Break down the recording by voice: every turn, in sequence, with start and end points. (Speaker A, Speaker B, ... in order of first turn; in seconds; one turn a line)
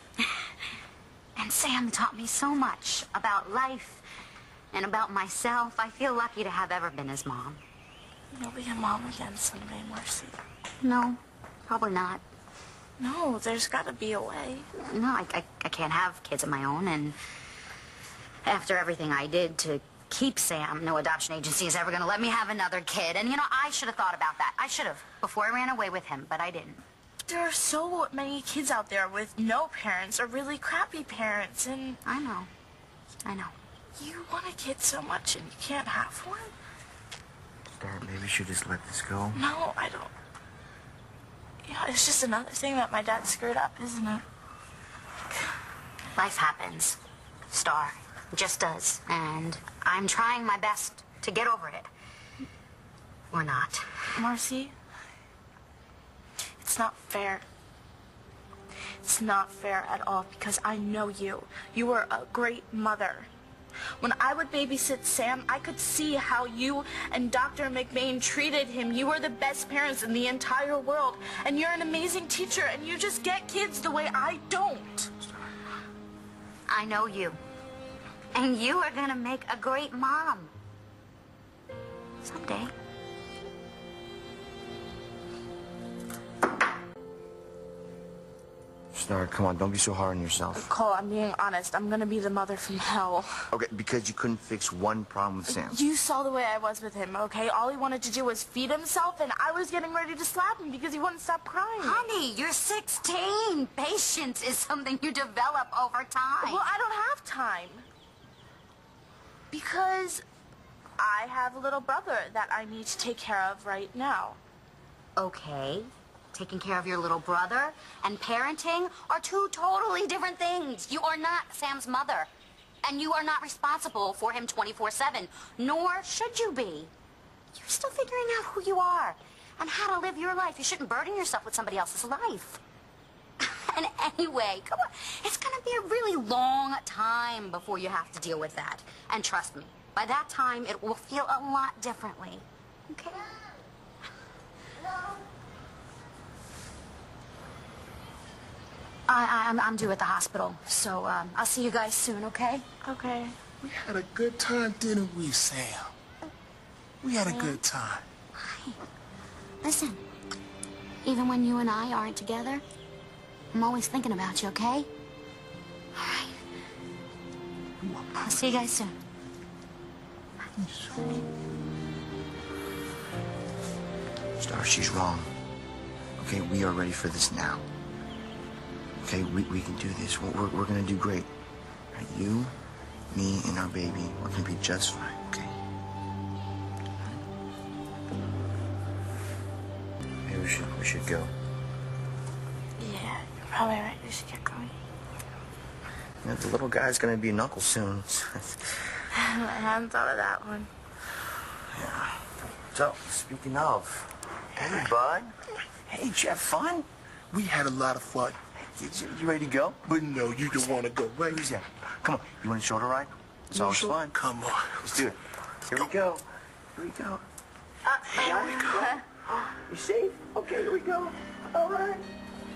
Speaker A: 0.2-0.5
Speaker A: 1.4-4.0
Speaker A: 4.7-7.6
Speaker B: 8.3-10.4
Speaker A: 10.8-12.2
Speaker B: 13.0-14.7
Speaker A: 14.7-17.2
Speaker A: 18.4-26.8
Speaker B: 27.3-32.0
Speaker A: 32.0-32.5
Speaker A: 33.2-33.5
Speaker B: 34.0-36.5
Speaker C: 37.7-39.4
Speaker B: 39.4-40.1
Speaker B: 41.6-44.2
Speaker A: 46.1-47.0
Speaker A: 47.5-51.9
Speaker A: 53.3-54.1
Speaker B: 54.1-54.7
Speaker B: 56.6-57.5
Speaker B: 59.0-63.3
Speaker B: 64.0-75.1
Speaker A: 76.7-77.4
Speaker A: 78.3-80.5
Speaker A: 82.2-82.7
Speaker C: 88.9-90.7
Speaker B: 90.5-93.5
Speaker C: 93.5-95.8
Speaker B: 95.5-102.1
Speaker A: 101.8-106.6
Speaker B: 106.4-107.9
Speaker B: 109.5-110.2
Speaker B: 111.0-114.4
Speaker A: 115.2-122.3
Speaker A: 122.8-126.9
Speaker A: 127.5-132.6
Speaker A: 133.4-143.3
Speaker A: 149.1-152.7
Speaker B: 152.8-153.4
Speaker D: 153.6-155.9
Speaker D: 157.0-158.1
Speaker B: 157.3-157.6
Speaker A: 158.4-158.8
Speaker A: 159.6-160.0
Speaker A: 161.1-162.6
Speaker A: 163.5-164.9
Speaker A: 165.9-166.3
Speaker D: 167.8-168.4
Speaker A: 168.2-169.0
Speaker D: 170.6-171.2
Speaker C: 174.4-175.3
Speaker C: 176.2-177.6
Speaker C: 179.0-181.3
Speaker C: 181.9-182.5
Speaker C: 183.1-185.6
Speaker C: 190.3-191.3
Speaker B: 192.8-194.7
Speaker C: 196.2-198.8
Speaker B: 199.1-200.7
Speaker C: 201.7-206.9
Speaker D: 204.6-204.9
Speaker D: 207.3-208.4
Speaker C: 208.6-210.1
Speaker D: 209.9-211.5
Speaker C: 211.3-214.2
Speaker D: 213.6-214.8
Speaker C: 214.8-217.2
Speaker C: 218.0-222.1
Speaker B: 218.1-219.0